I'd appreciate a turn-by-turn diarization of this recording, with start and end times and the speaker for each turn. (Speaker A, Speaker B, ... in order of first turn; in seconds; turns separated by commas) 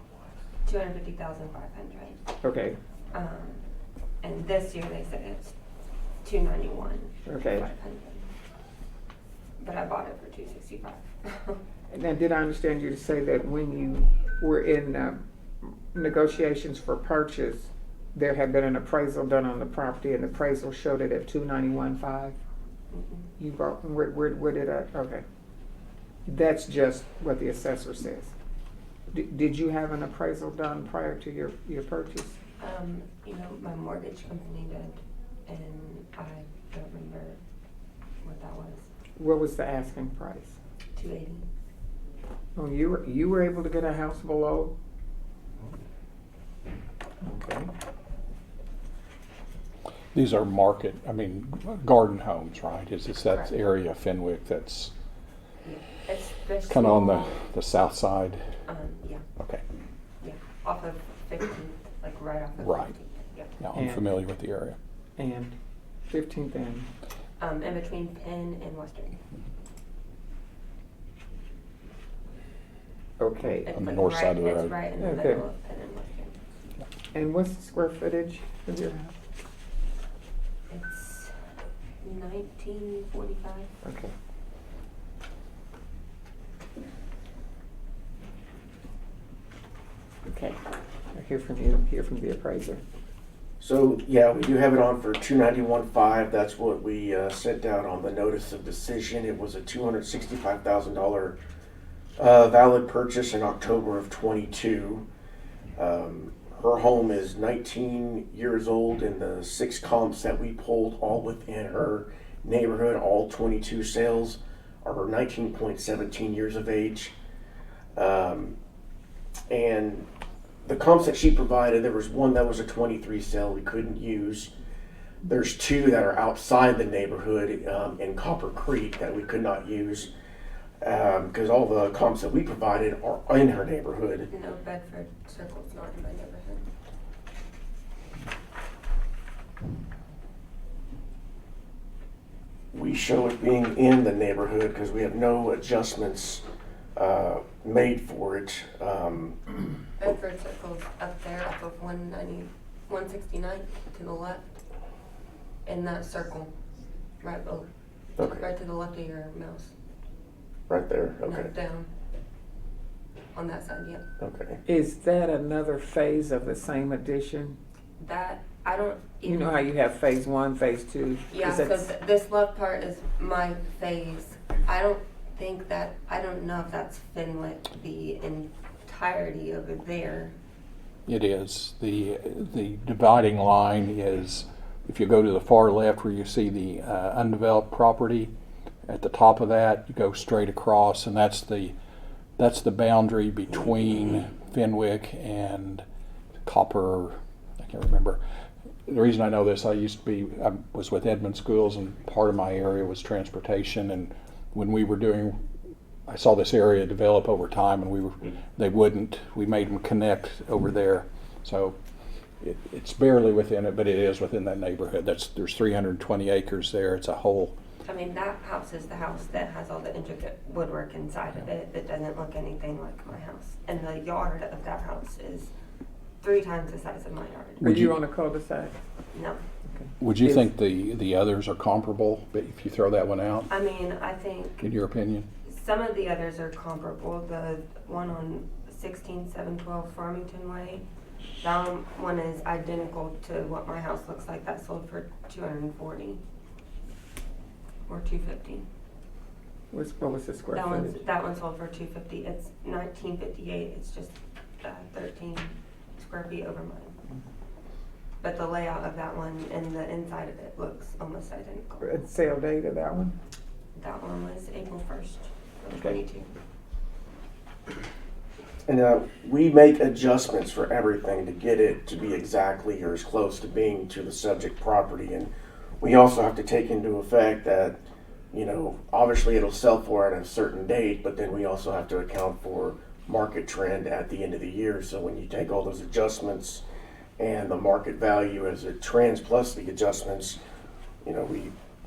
Speaker A: 0.7-2.2, Speaker B: 2.4-2.8, Speaker A: 3.1-3.6, Speaker A: 4.2-5.5, Speaker A: 6.2-8.3, Speaker B: 7.3-7.7, Speaker A: 9.6-11.6, Speaker B: 11.9-22.4, Speaker A: 22.9-23.3, Speaker B: 23.4-25.2, Speaker B: 26.3-28.3, Speaker B: 29.1-32.4, Speaker A: 32.6-37.4, Speaker A: 38.2-38.9, Speaker B: 39.2-40.6, Speaker A: 41.0-41.5, Speaker B: 42.6-44.7, Speaker B: 47.2-47.7, Speaker C: 50.1-54.9, Speaker A: 55.6-57.4, Speaker C: 56.7-58.4, Speaker A: 58.7-59.2, Speaker A: 60.2-63.5, Speaker C: 63.6-64.8, Speaker B: 63.7-64.1, Speaker B: 65.2-65.5, Speaker B: 66.1-66.9, Speaker A: 67.4-69.2, Speaker B: 73.2-73.7, Speaker A: 73.7-76.4, Speaker C: 73.7-74.7, Speaker B: 75.0-75.5, Speaker B: 77.1-79.2, Speaker A: 80.7-81.4, Speaker A: 82.0-83.7, Speaker B: 83.8-84.1, Speaker B: 90.3-90.6, Speaker B: 91.1-92.8, Speaker D: 93.6-101.4, Speaker D: 102.2-105.1, Speaker D: 105.8-117.1, Speaker D: 118.0-118.6, Speaker D: 119.5-120.1, Speaker D: 120.7-124.5, Speaker D: 125.3-130.1, Speaker D: 130.8-134.3, Speaker A: 134.3-136.7, Speaker D: 142.7-146.4, Speaker D: 147.0-149.4, Speaker A: 150.0-154.4, Speaker A: 155.7-156.5, Speaker A: 157.2-157.7, Speaker D: 158.2-158.5, Speaker A: 158.2-159.7, Speaker D: 160.7-161.5, Speaker A: 161.2-161.9, Speaker A: 163.3-164.0, Speaker D: 164.2-164.6, Speaker B: 164.7-167.6, Speaker A: 168.0-169.6, Speaker B: 169.2-171.9, Speaker A: 171.3-180.4, Speaker C: 181.1-188.3, Speaker C: 188.9-191.7, Speaker C: 192.4-195.8, Speaker C: 196.4-198.2, Speaker C: 198.9-205.4, Speaker C: 206.1-211.8, Speaker C: 212.4-217.6, Speaker A: 217.8-225.5, Speaker A: 226.2-227.7, Speaker B: 227.6-228.8, Speaker C: 227.7-227.9, Speaker A: 229.1-229.4, Speaker C: 230.0-233.5, Speaker A: 233.5-234.6, Speaker C: 234.6-235.3, Speaker A: 235.4-240.8, Speaker A: 241.4-246.2, Speaker A: 247.9-248.7, Speaker B: 249.7-251.0, Speaker A: 250.5-257.0, Speaker A: 258.2-261.9, Speaker B: 261.8-263.1, Speaker A: 263.8-266.3, Speaker D: 268.7-277.8, Speaker D: 278.3-286.6, Speaker D: 287.2-290.4, Speaker D: 291.0-291.6